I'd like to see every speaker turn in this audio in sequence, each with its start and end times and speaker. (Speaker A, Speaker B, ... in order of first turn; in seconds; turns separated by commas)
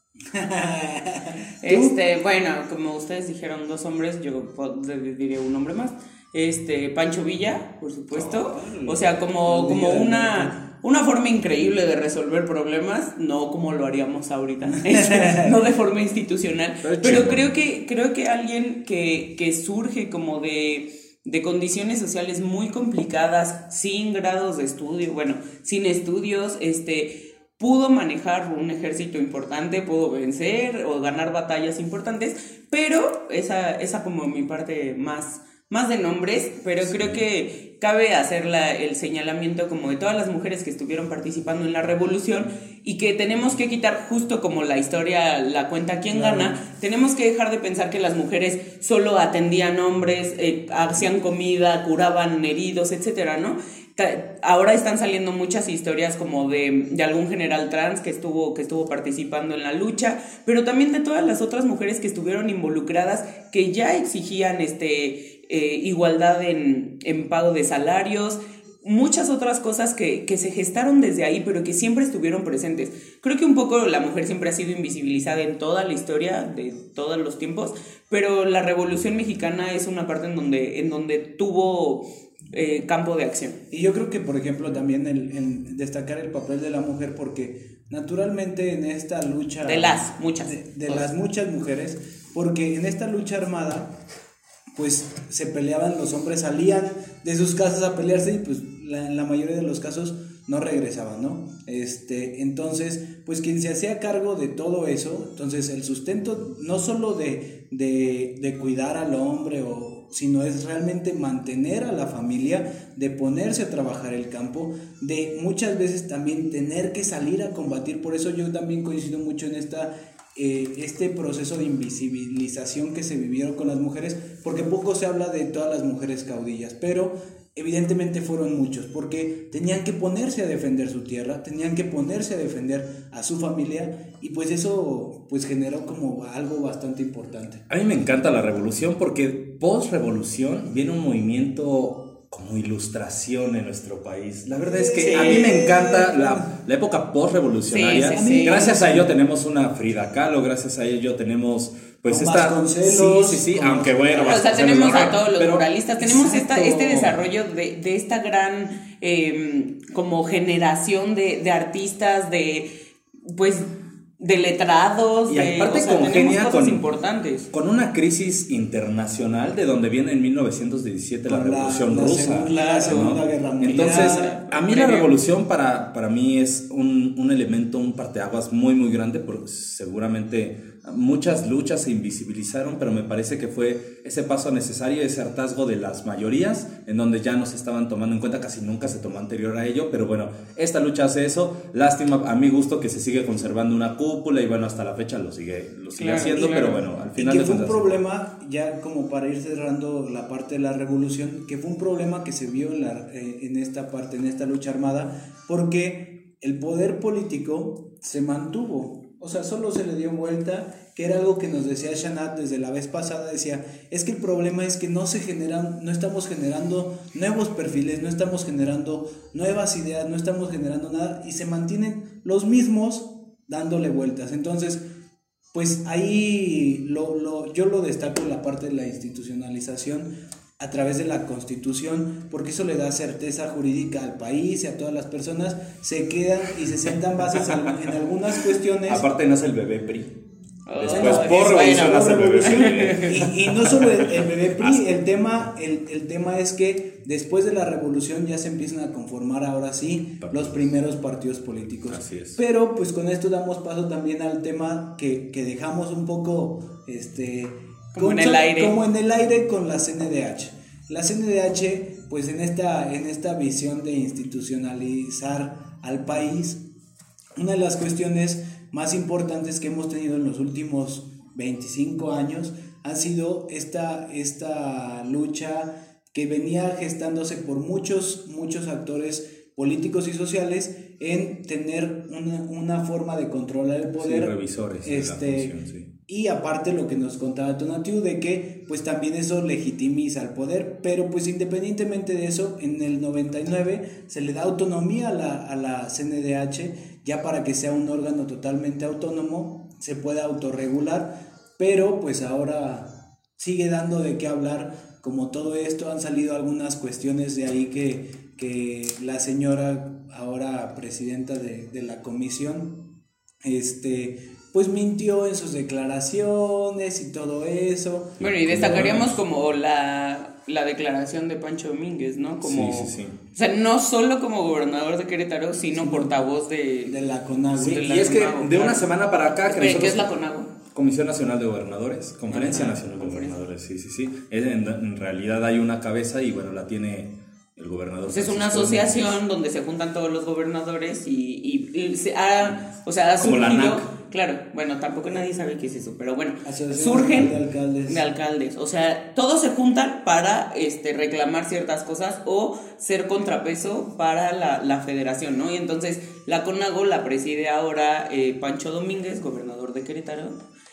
Speaker A: 0.3-1.9, Speaker B: 1.6-83.6, Speaker A: 8.1-10.6, Speaker A: 14.7-15.5, Speaker C: 16.8-17.5, Speaker C: 36.8-37.2, Speaker A: 46.1-46.5, Speaker A: 83.7-93.9, Speaker B: 89.6-91.0, Speaker A: 94.8-137.6, Speaker C: 137.7-155.7, Speaker A: 144.5-146.5, Speaker B: 145.0-145.6, Speaker B: 147.7-148.7, Speaker A: 148.1-149.1, Speaker A: 152.1-154.9, Speaker B: 154.2-162.7, Speaker A: 156.0-157.2, Speaker B: 163.3-163.7, Speaker B: 164.2-167.5, Speaker C: 165.3-166.8, Speaker C: 167.5-198.0, Speaker A: 171.3-174.3, Speaker B: 172.4-175.2, Speaker B: 196.0-196.8, Speaker A: 197.2-224.8, Speaker A: 225.5-239.0, Speaker C: 238.9-240.1, Speaker B: 240.7-243.2, Speaker C: 240.8-244.8, Speaker A: 240.9-266.6, Speaker C: 250.2-250.7, Speaker C: 251.9-252.4, Speaker B: 257.9-258.8, Speaker A: 267.4-285.5, Speaker C: 284.0-285.9, Speaker A: 286.1-312.8, Speaker A: 313.4-318.2, Speaker C: 318.2-319.2, Speaker B: 318.2-327.0, Speaker C: 322.4-323.1, Speaker A: 325.8-326.1, Speaker A: 326.9-327.9, Speaker C: 327.5-330.0, Speaker B: 327.6-328.9, Speaker B: 329.4-330.5, Speaker C: 330.7-339.2, Speaker B: 332.3-333.4, Speaker B: 338.1-360.4, Speaker C: 343.2-343.9, Speaker A: 346.4-348.0